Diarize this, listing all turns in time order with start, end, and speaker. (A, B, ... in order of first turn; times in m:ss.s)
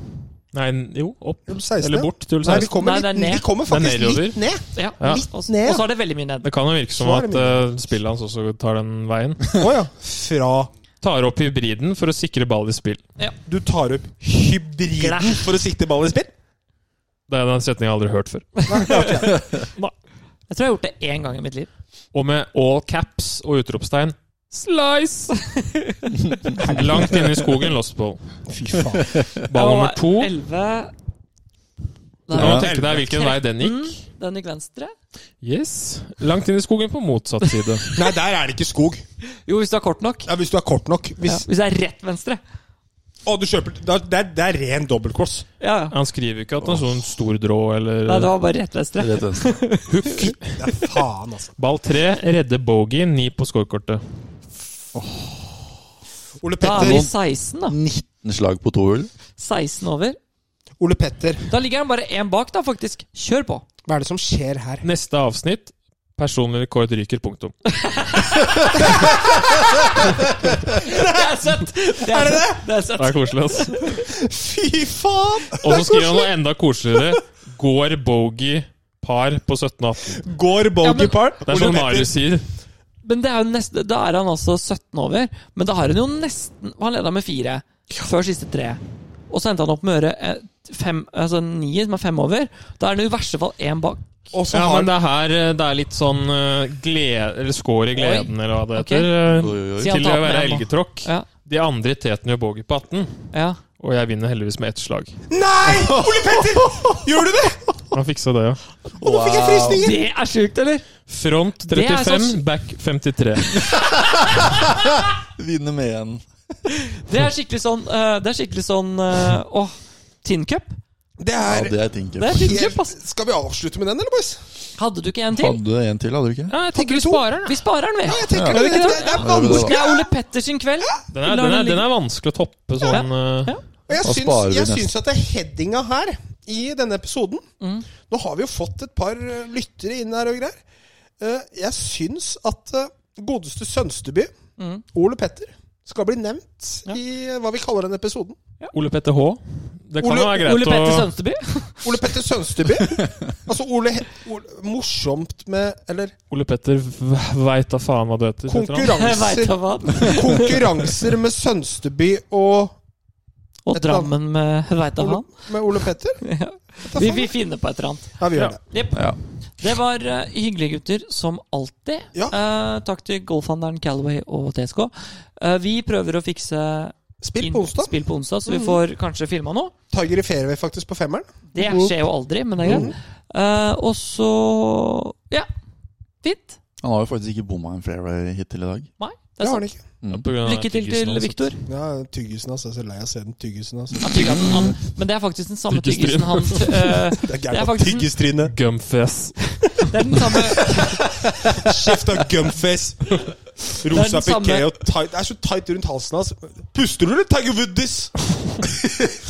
0:00.5-0:02.7 A
0:01.5-0:05.8 B
0:02.7-0:03.5 C
0:03.7-0:04.4 A
0:04.7-0:06.5 C
0:05.0-0:05.3 A
0:06.4-0:09.6 A
0:07.0-0:07.7 B
0:09.5-0:10.7 B
0:11.0-0:13.0 A
0:13.4-0:16.3 B
0:15.0-0:15.5 C
0:17.3-0:19.9 A
0:18.6-0:19.1 C
0:18.7-0:19.5 B
0:20.5-0:21.7 C
0:22.1-0:25.3 A
0:25.3-0:26.2 C
0:26.5-0:28.2 A
0:26.6-0:27.2 B
0:28.5-0:29.2 B
0:29.0-0:29.3 D
0:29.4-0:30.3 A
0:29.5-0:30.9 C
0:32.3-0:34.9 C
0:32.3-0:34.0 A
0:32.3-0:32.6 D
0:32.4-0:33.1 B
0:35.4-0:37.9 A
0:38.0-0:39.0 B
0:39.3-0:40.3 C
0:40.3-0:41.4 B
0:41.2-0:42.4 C
0:43.2-0:45.5 B
0:45.6-0:46.0 C
0:45.9-0:48.3 A
0:48.1-0:50.3 C
0:49.0-0:49.6 D
0:49.9-0:50.6 A
0:50.6-0:51.5 B
0:51.6-0:54.0 A
0:55.0-0:55.3 D
0:56.4-0:57.1 B
0:56.6-0:57.8 C
0:56.7-0:57.1 D
0:57.7-0:59.1 D
0:59.4-1:00.2 C
1:00.8-1:01.5 B
1:01.5-1:03.6 C
1:03.9-1:04.9 B
1:04.8-1:07.5 A
1:07.7-1:08.8 C
1:09.8-1:10.1 C
1:10.6-1:14.0 C
1:10.7-1:12.7 B
1:13.0-1:14.0 A
1:14.0-1:16.3 B
1:15.6-1:20.2 A
1:20.2-1:22.1 B
1:20.8-1:21.4 C
1:21.4-1:22.5 A
1:23.0-1:34.3 C
1:34.3-1:34.9 B
1:34.5-1:45.2 A
1:38.0-1:38.3 D
1:38.8-1:39.1 C
1:39.3-1:40.1 D
1:39.8-1:41.3 C
1:43.3-1:43.6 C
1:45.3-1:47.8 B
1:47.9-1:48.6 A
1:49.0-1:50.0 B
1:49.0-1:49.9 D
1:49.7-1:50.9 C
1:51.1-1:53.6 A
1:51.6-1:52.4 C
1:54.0-1:56.3 D
1:56.7-2:00.8 C
2:01.2-2:04.4 B
2:01.5-2:02.6 D
2:02.2-2:03.0 C
2:04.8-2:05.6 C
2:05.3-2:06.6 D
2:06.5-2:07.6 A
2:06.7-2:07.2 B
2:07.4-2:11.9 C
2:08.1-2:10.1 B
2:08.3-2:09.8 D
2:11.1-2:13.5 A
2:12.9-2:13.6 C
2:13.9-2:17.4 B
2:14.0-2:14.9 D
2:17.6-2:17.9 C
2:18.1-2:20.6 B
2:21.2-2:24.3 B
2:24.6-2:24.8 C
2:24.9-2:28.4 B
2:28.7-2:31.1 A
2:30.0-2:30.5 B
2:30.4-2:32.0 C
2:31.8-2:36.1 B
2:36.3-2:39.0 A
2:38.5-2:42.8 B
2:38.9-2:40.6 C
2:43.7-2:45.5 C
2:43.7-2:44.1 B
2:45.0-2:46.2 B
2:46.2-2:59.7 C
2:46.8-2:47.3 B
2:48.2-2:48.6 B
2:48.9-2:49.2 D
2:57.2-2:57.9 B
2:58.5-2:58.8 B
2:59.9-3:01.4 B
3:01.5-3:05.5 C
3:02.6-3:03.0 B
3:06.2-3:06.6 C
3:06.8-3:08.9 D
3:09.0-3:09.7 C
3:09.4-3:09.8 B
3:10.1-3:11.5 A
3:10.4-3:11.6 C
3:11.7-3:14.6 B
3:14.0-3:18.1 C
3:14.3-3:14.7 D
3:15.7-3:16.9 A
3:17.2-3:18.6 B
3:18.4-3:19.9 A
3:19.9-3:21.0 C
3:20.3-3:29.2 B
3:23.9-3:24.7 C